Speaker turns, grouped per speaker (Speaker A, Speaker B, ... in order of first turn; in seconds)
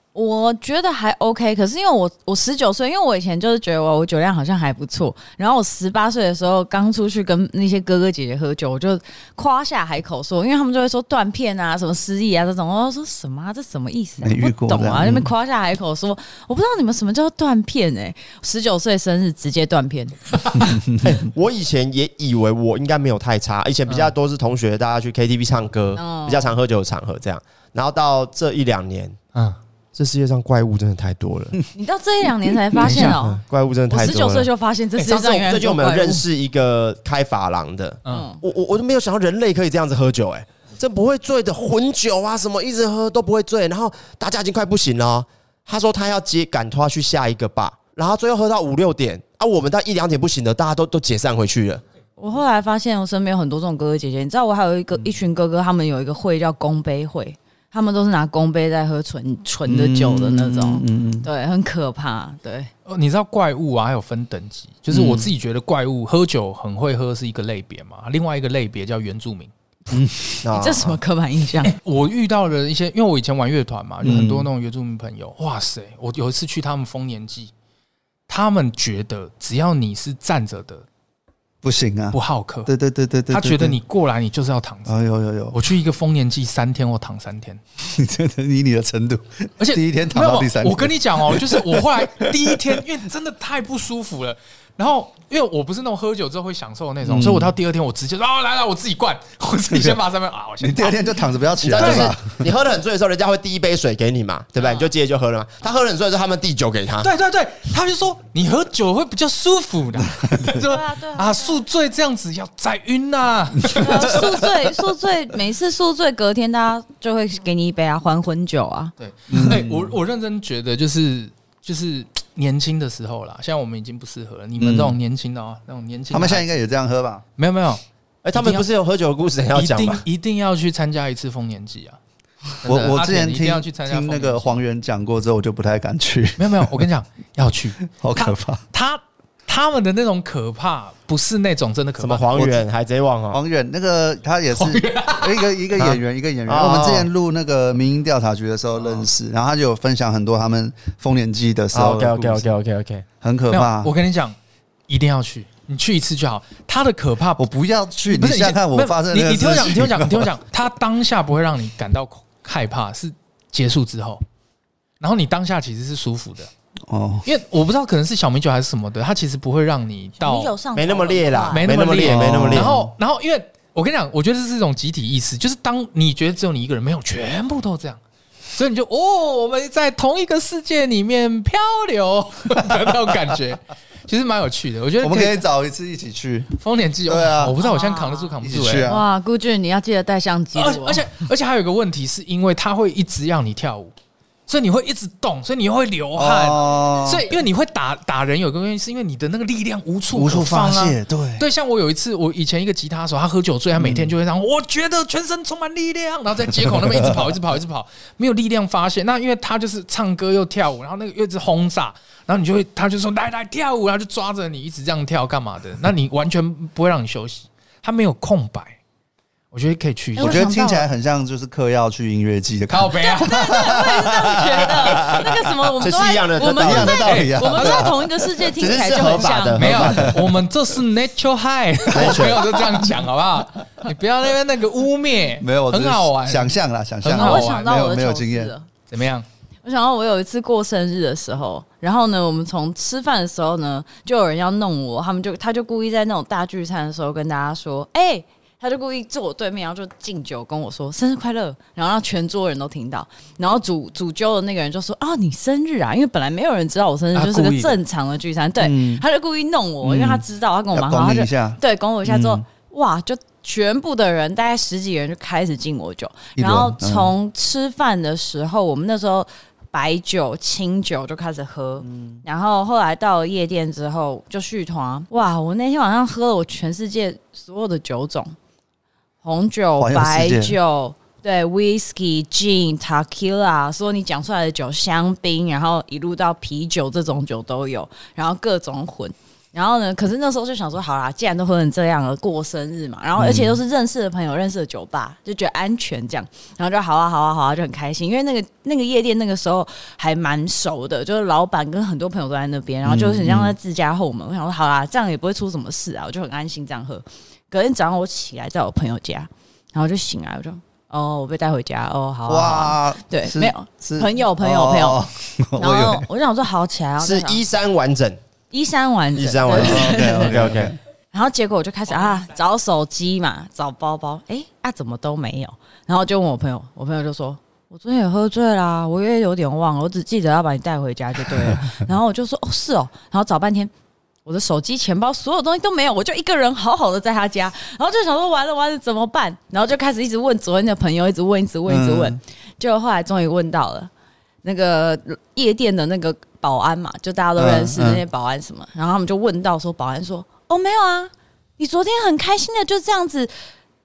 Speaker A: 0.1-20.2, 25.9-26.6, 31.7-36.2, 38.1-38.4, 52.2-62.7, 70.5-71.7, 110.7-111.6, 113.8-118.9, 170.2-171.7, 187.6-188.3, 188.9-191.1, 220.2-220.9, 223.0-229.8, 237.1-238.7, 239.6-278.3, 279.2-315.0, 315.6-317.4, 318.5-320.5, 321.1-333.7, 334.2-343.9, 344.4-353.3
Speaker B: 14.2-15.3, 20.6-21.2, 59.7-61.3, 64.9-65.3, 69.9-70.3, 74.0-74.5, 81.6-83.8, 84.9-85.6, 87.8-92.8, 97.1-97.5, 99.7-100.0, 100.6-102.5, 119.3-120.0, 124.6-125.0, 126.1-127.2, 132.7-136.8, 137.9-138.6, 142.3-142.7, 143.3-152.5, 153.2-153.9, 157.4-160.3, 166.9-167.3, 172.0-172.9, 185.0-186.5, 187.1-187.6, 188.4-189.1, 196.2-197.3, 200.1-201.4, 203.8-204.1, 207.0-207.2, 220.2-225.4, 226.6-228.0, 229.7-230.3, 232.0-232.4, 235.4-238.5, 258.6-259.0, 259.8-262.4, 266.4-267.1, 271.8-272.2, 279.8-280.6, 293.2-293.6, 302.9-303.6, 312.2-316.1, 319.5-320.8, 341.7-342.2, 347.4-348.0
Speaker C: 21.0-29.2, 29.9-31.6, 33.2-51.8, 70.4-71.0, 101.6-107.1, 128.2-130.0, 142.0-143.4, 145.8-147.1, 151.7-153.1, 170.8-172.7, 225.8-227.1, 228.6-230.0, 231.9-232.5, 317.0-318.2, 319.1-320.7
Speaker D: 23.9-24.1, 32.8-33.2, 62.9-69.5, 71.6-77.5, 78.3-80.9, 82.1-82.7, 83.3-87.6, 89.6-101.0, 101.8-102.1, 107.0-114.4, 119.0-126.6, 127.4-127.8, 128.3-128.7, 129.6-132.0, 132.6-134.6, 136.4-142.2, 144.5-145.5, 148.8-149.1, 153.5-154.4, 154.9-157.5, 158.1-164.2, 165.0-166.5, 167.2-170.5, 171.5-178.0, 178.5-185.4, 186.6-188.9, 190.5-193.9, 194.5-218.8, 219.5-220.5, 222.7-223.8, 227.0-227.9, 229.6-237.9, 238.9-239.3, 257.1-257.8